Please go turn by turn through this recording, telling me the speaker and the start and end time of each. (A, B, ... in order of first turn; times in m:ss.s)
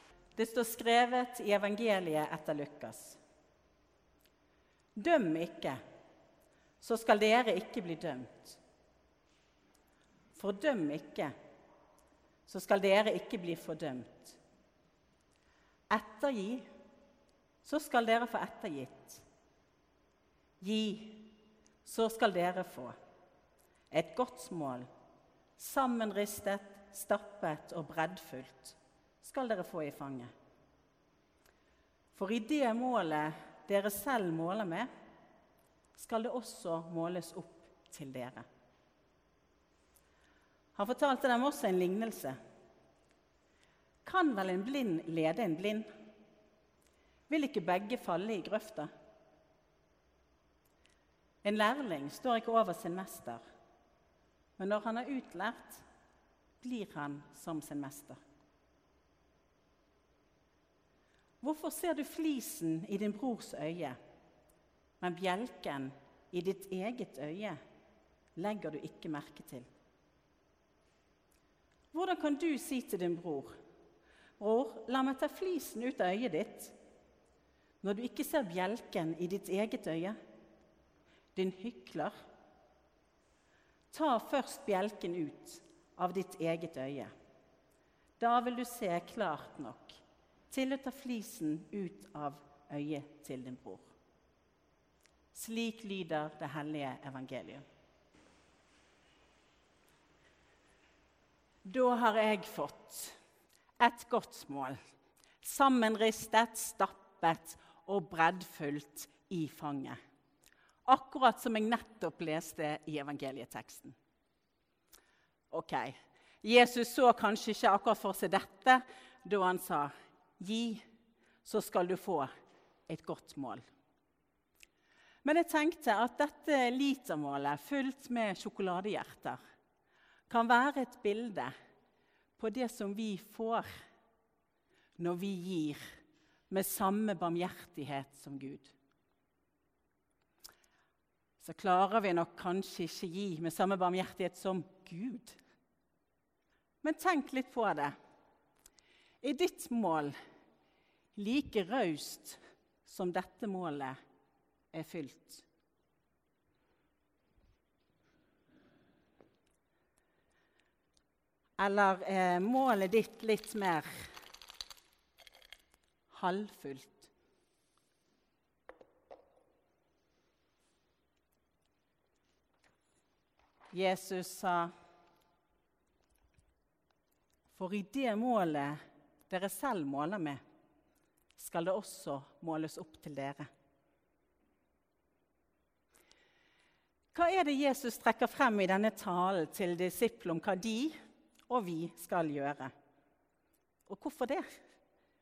0:00.4-0:03.2 A
0:05.0-0:05.8 A
0:06.8-0:08.6 A
0:10.3-0:11.3 A
0:12.5-0:14.4 A
0:15.9-0:16.6 A
0:17.6-0:19.2 A
0:20.6-0:21.3 A
0:21.8-0:22.9 A
0:23.9-0:24.9 A
0:25.6-0:30.3 A
0:32.1-0:34.9 A
0:36.0-0:38.4 A
0:40.7-0:42.4 A
0:44.0-0:45.9 A
0:47.3-0:48.9 A
0:51.4-0:53.4 A
0:54.6-0:55.8 A
0:56.6-0:58.2 A
1:01.4-1:04.0 A
1:05.0-1:07.6 A
1:08.4-1:09.7 A
1:11.9-1:13.5 A
1:14.4-1:16.7 A
1:17.8-1:20.2 A
1:21.3-1:22.1 A
1:23.9-1:27.1 A
1:28.2-1:33.9 A
1:35.3-1:37.6 A
1:41.6-1:43.2 A
1:43.8-1:44.8 A
1:45.4-1:50.0 A
1:50.8-1:53.9 A
1:55.5-2:00.8 A
2:01.4-2:02.3 A
2:02.9-2:03.6 A
2:05.2-2:09.4 A
2:10.3-2:11.5 A
2:12.4-2:13.8 A
2:15.0-2:15.9 A
2:16.5-2:18.7 A
2:21.4-2:25.4 A
2:26.8-2:27.9 A
2:29.2-2:30.1 A
2:31.1-2:34.0 A
2:34.7-2:35.4 A
2:41.6-2:44.1 A
2:46.1-2:47.1 A
2:53.7-2:54.7 A
2:57.5-3:00.4 A
3:01.4-3:03.5 A
3:07.1-3:10.9 A
3:11.5-3:12.7 A
3:13.9-3:14.5 A